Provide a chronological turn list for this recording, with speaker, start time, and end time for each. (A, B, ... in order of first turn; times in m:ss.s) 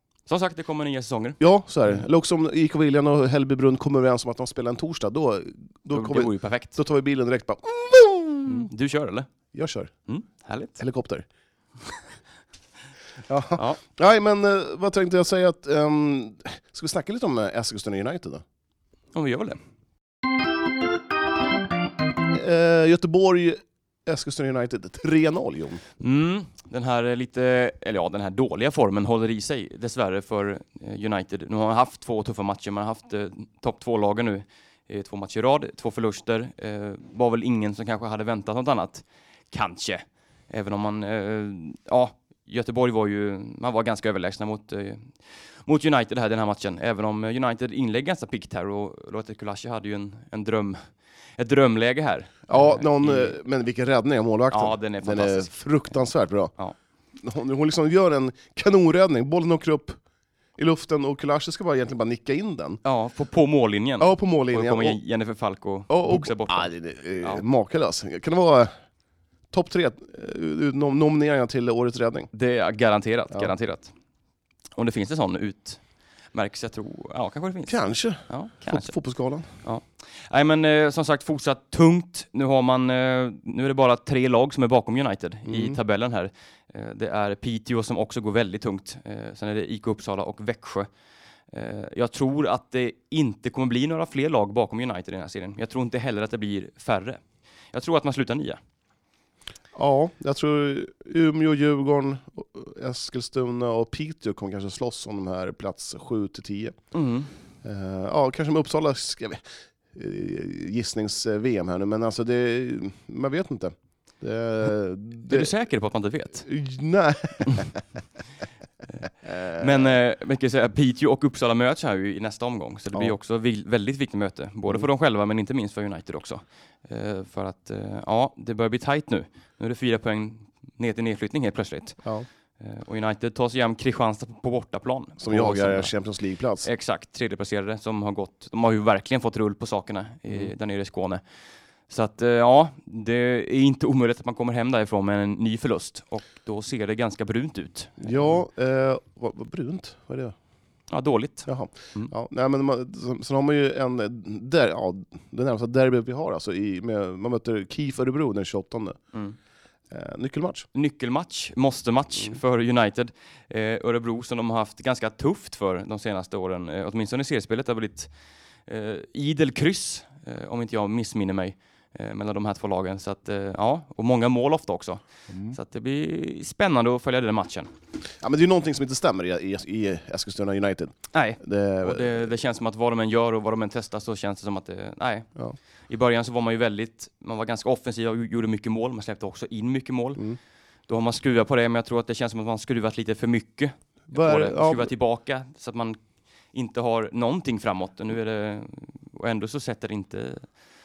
0:00.3-0:01.4 A
0:01.4-0:08.7 B
0:05.9-0:06.8 A
0:08.4-0:09.3 A
0:09.5-0:09.9 B
0:10.1-0:10.8 A
0:10.8-0:11.2 B
0:13.3-0:18.4 B
0:19.1-0:19.6 A
0:22.3-0:25.8 B
0:26.0-0:50.8 A
0:51.4-0:53.4 A
0:52.5-0:56.5 B
0:54.5-0:55.5 A
0:57.2-1:00.0 B
1:00.6-1:02.8 B
1:02.8-1:07.4 A
1:04.0-1:05.0 B
1:05.9-1:08.7 B
1:09.5-1:12.3 B
1:12.3-1:13.9 A
1:14.8-1:15.8 A
1:16.3-1:17.8 A
1:17.7-1:19.5 B
1:18.3-1:18.9 A
1:19.6-1:30.9 A
1:25.4-1:25.8 B
1:31.5-1:37.2 A
1:37.7-1:38.6 A
1:39.7-1:46.8 B
1:46.9-1:47.3 A
1:47.6-1:55.5 B
1:55.2-1:56.4 A
1:56.4-1:57.8 B
1:59.2-1:59.9 B
1:59.5-2:12.0 A
2:12.6-2:15.9 A
2:15.2-2:16.7 B
2:16.6-2:21.2 A
2:21.9-2:28.4 A
2:28.0-2:30.3 B
2:30.9-2:32.1 A
2:31.4-2:39.0 B
2:39.9-2:40.7 B
2:40.7-2:48.1 A
2:48.7-2:55.0 A
2:55.3-2:55.6 B
2:55.5-2:57.7 A
2:58.2-3:02.2 B
3:01.1-3:05.3 A
3:05.9-3:10.2 A
3:10.9-3:16.0 A
3:14.1-3:14.9 B
3:16.5-3:20.5 A